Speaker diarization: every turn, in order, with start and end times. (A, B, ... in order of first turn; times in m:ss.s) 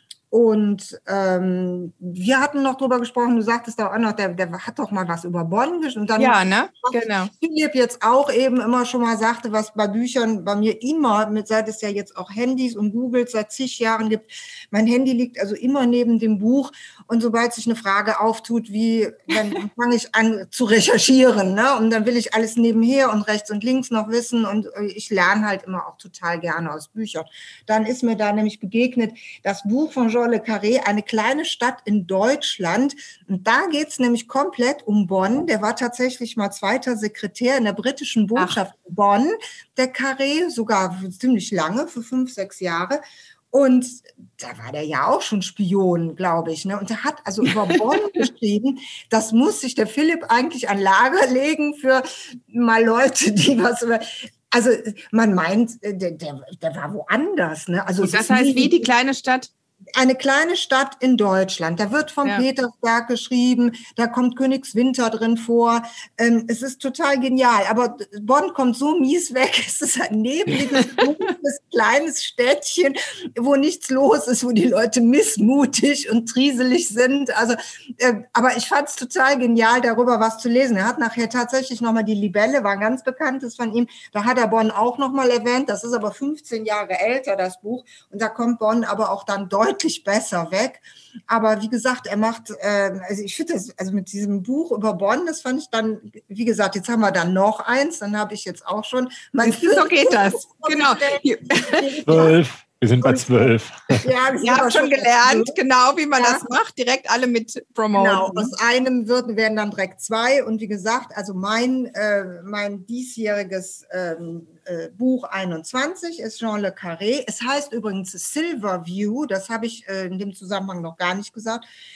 0:00.3-0:58.9 A
0:06.2-0:07.3 B
0:58.0-0:59.5 B
1:00.0-1:42.4 A
1:39.4-1:41.9 B
1:42.1-1:44.1 C
1:43.0-1:43.5 A
1:44.0-1:45.6 A
1:44.4-1:48.5 B
1:46.2-1:46.5 A
1:47.9-2:01.7 A